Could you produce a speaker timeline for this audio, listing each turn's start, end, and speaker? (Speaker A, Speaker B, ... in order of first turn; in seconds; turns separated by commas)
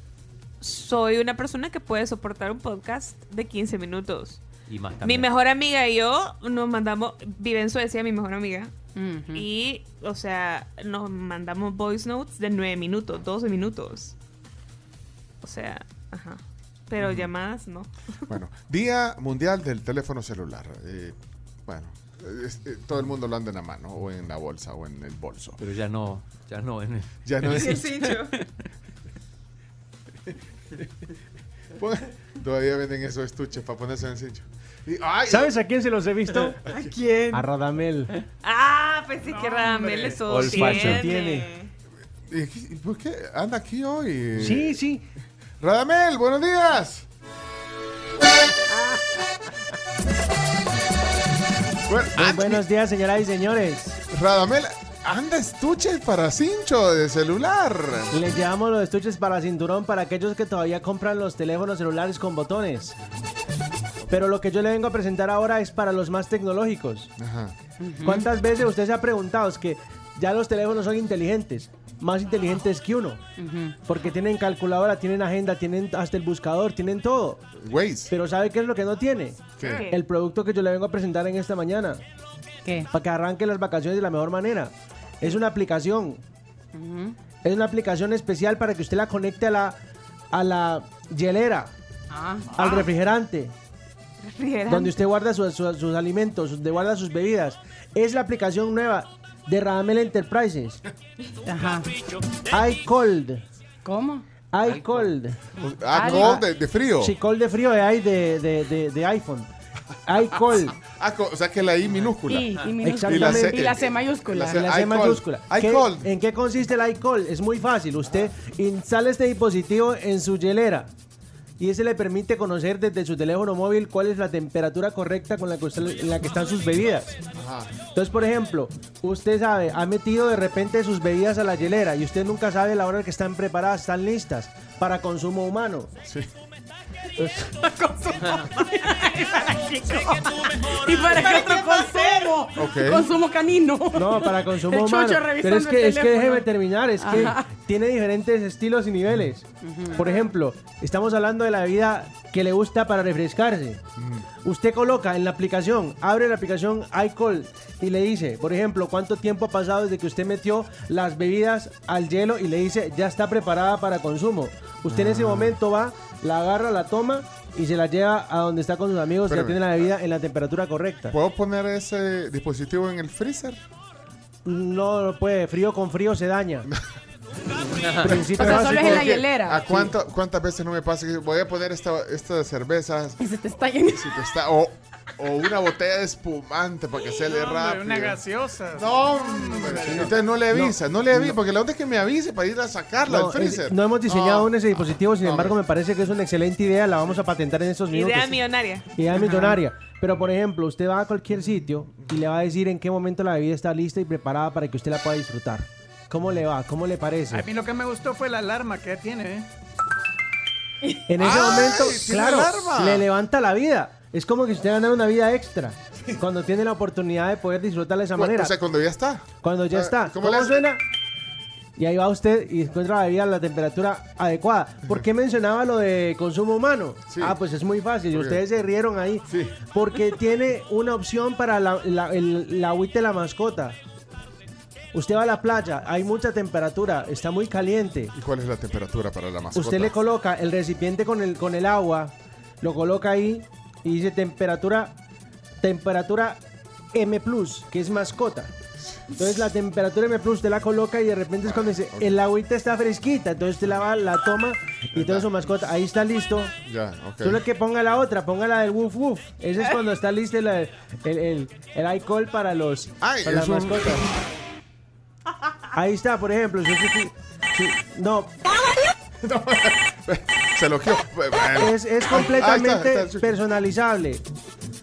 Speaker A: 0.6-4.4, Speaker B: 4.7-5.3, Speaker A: 5.0-8.7, Speaker C: 8.9-9.4, Speaker A: 9.3-14.1, Speaker A: 15.4-17.9, Speaker D: 17.0-17.3, Speaker D: 18.3-25.6, Speaker B: 25.6-28.4, Speaker D: 27.2-28.0, Speaker A: 27.6-28.3, Speaker D: 31.8-35.5, Speaker E: 35.3-38.1, Speaker A: 38.4-41.7, Speaker F: 39.2-40.2, Speaker B: 40.2-41.0, Speaker E: 40.4-41.5, Speaker D: 42.3-44.8, Speaker E: 44.4-45.0, Speaker D: 45.6-47.0, Speaker E: 48.7-49.0, Speaker D: 51.9-52.6, Speaker E: 52.2-54.0, Speaker D: 54.1-58.1, Speaker E: 58.1-63.0, Speaker E: 64.1-67.1, Speaker D: 67.2-67.5, Speaker C: 67.8-68.2, Speaker E: 68.0-73.2, Speaker C: 73.4-73.8, Speaker E: 73.8-77.4, Speaker D: 77.6-78.1, Speaker E: 78.1-82.0, Speaker D: 79.6-79.8, Speaker A: 79.6-80.0, Speaker E: 82.9-86.2, Speaker C: 86.7-87.2, Speaker E: 87.4-89.8, Speaker E: 90.3-91.7, Speaker C: 92.1-92.7, Speaker E: 92.5-93.5, Speaker A: 94.2-95.0, Speaker E: 94.7-100.8, Speaker C: 101.5-101.9, Speaker E: 102.4-103.4, Speaker C: 103.8-104.2, Speaker E: 104.5-105.4, Speaker B: 104.6-105.1, Speaker D: 105.6-107.1, Speaker C: 105.9-106.4, Speaker E: 106.0-106.4, Speaker E: 107.0-109.5, Speaker E: 110.0-110.8, Speaker D: 110.8-116.1, Speaker B: 112.0-112.7, Speaker C: 112.3-114.7, Speaker E: 112.8-113.7, Speaker E: 114.5-120.9, Speaker E: 121.6-127.1, Speaker D: 127.3-127.7, Speaker E: 127.9-135.9, Speaker E: 137.2-137.6, Speaker C: 137.6-147.5, Speaker D: 142.5-143.1, Speaker E: 143.9-153.8, Speaker C: 149.6-150.3, Speaker D: 154.0-154.3, Speaker E: 154.4-171.2, Speaker D: 164.9-165.6, Speaker D: 169.3-169.8, Speaker D: 171.1-173.6, Speaker E: 174.4-176.7, Speaker E: 178.0-179.2, Speaker D: 178.0-183.2, Speaker C: 178.4-179.9, Speaker C: 183.2-184.2, Speaker D: 183.9-188.2, Speaker F: 187.2-190.1, Speaker D: 188.7-194.5, Speaker E: 189.8-191.4, Speaker E: 193.1-207.5, Speaker D: 195.2-195.6, Speaker A: 197.9-198.9, Speaker C: 199.1-199.6, Speaker F: 207.3-209.5, Speaker E: 211.1-218.5, Speaker D: 211.2-213.0, Speaker D: 218.1-220.7, Speaker E: 219.4-220.8, Speaker E: 221.8-233.8, Speaker D: 227.1-227.4, Speaker D: 228.1-228.4, Speaker D: 229.3-229.6, Speaker E: 234.9-238.1, Speaker D: 238.1-240.0, Speaker E: 239.5-244.9, Speaker E: 245.6-246.4, Speaker E: 246.9-248.5, Speaker E: 249.2-256.5, Speaker D: 251.4-252.1, Speaker D: 254.9-255.3, Speaker D: 256.6-257.4, Speaker E: 257.2-264.1, Speaker D: 263.0-264.1, Speaker E: 265.7-268.4, Speaker D: 269.2-273.3, Speaker E: 271.6-274.2